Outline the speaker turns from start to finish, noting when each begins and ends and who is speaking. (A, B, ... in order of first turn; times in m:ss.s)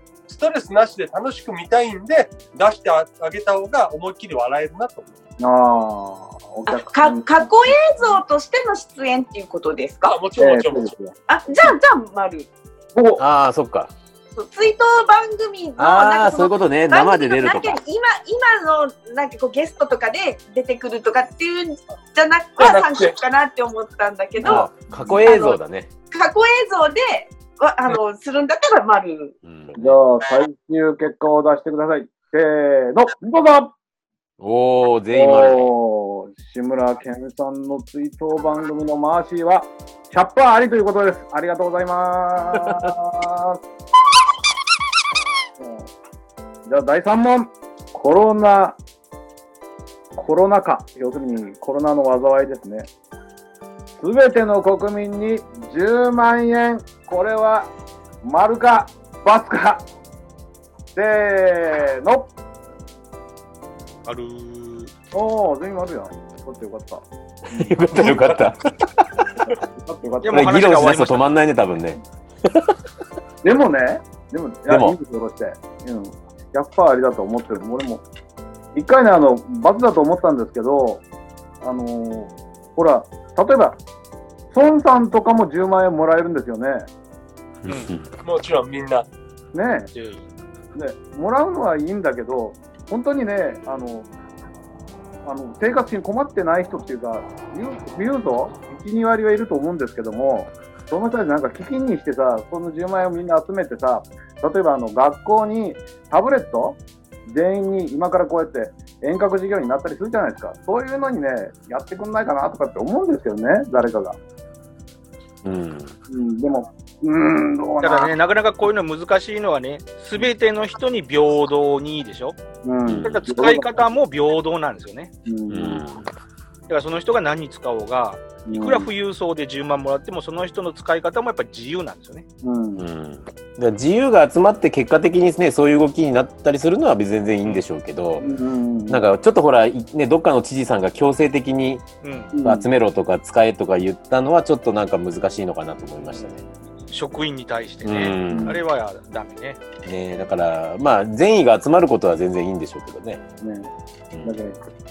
0:00.3-0:05.1 A
0:05.4-0:07.4 B
0:06.7-0:10.2 C
0:10.0-0:10.9 A
0:10.4-0:11.7 B
0:11.3-0:12.5 C
0:12.9-0:13.2 B
0:13.2-0:13.9 D
0:14.4-0:25.6 C
0:15.8-0:17.8 D
0:22.6-0:23.2 A
0:24.4-0:25.9 D
0:26.1-0:29.3 C
0:29.4-0:30.0 D
0:29.7-0:33.7 B
0:34.4-0:35.7 D
0:35.1-0:43.6 B
0:45.6-0:45.9 B
0:46.7-0:48.8 B
0:50.2-0:52.9 B
0:54.0-0:57.7 B
0:58.2-0:59.8 B
1:00.9-1:02.3 B
1:04.0-1:04.9 E
1:05.1-1:08.0 B
1:07.5-1:09.2 D
1:08.0-1:08.6 A
1:09.4-1:10.5 B
1:10.2-1:11.3 E
1:10.3-1:12.7 D
1:13.4-1:18.0 B
1:14.7-1:15.0 D
1:18.7-1:21.0 B
1:21.6-1:23.8 B
1:24.5-1:26.9 B
1:27.6-1:28.1 D
1:28.2-1:29.1 A
1:29.5-1:29.9 B
1:29.9-1:30.3 E
1:30.7-1:34.1 B
1:35.2-1:54.2 B
1:55.4-1:55.9 D
1:56.1-1:58.1 B
1:57.8-2:02.4 E
2:02.6-2:03.8 B
2:02.8-2:03.1 D
2:03.0-2:05.1 E
2:05.2-2:05.8 B
2:05.5-2:06.0 D
2:06.7-2:12.2 E
2:08.4-2:08.9 B
2:12.4-2:12.8 B
2:12.8-2:18.3 D
2:18.2-2:19.0 B
2:18.9-2:21.8 D
2:22.0-2:22.3 E
2:22.3-2:22.7 B
2:22.4-2:26.4 D
2:26.9-2:29.6 E
2:27.8-2:28.6 D
2:28.3-2:28.6 B
2:29.8-2:33.2 D
2:33.4-2:33.7 B
2:34.1-2:34.4 D
2:34.2-2:34.6 B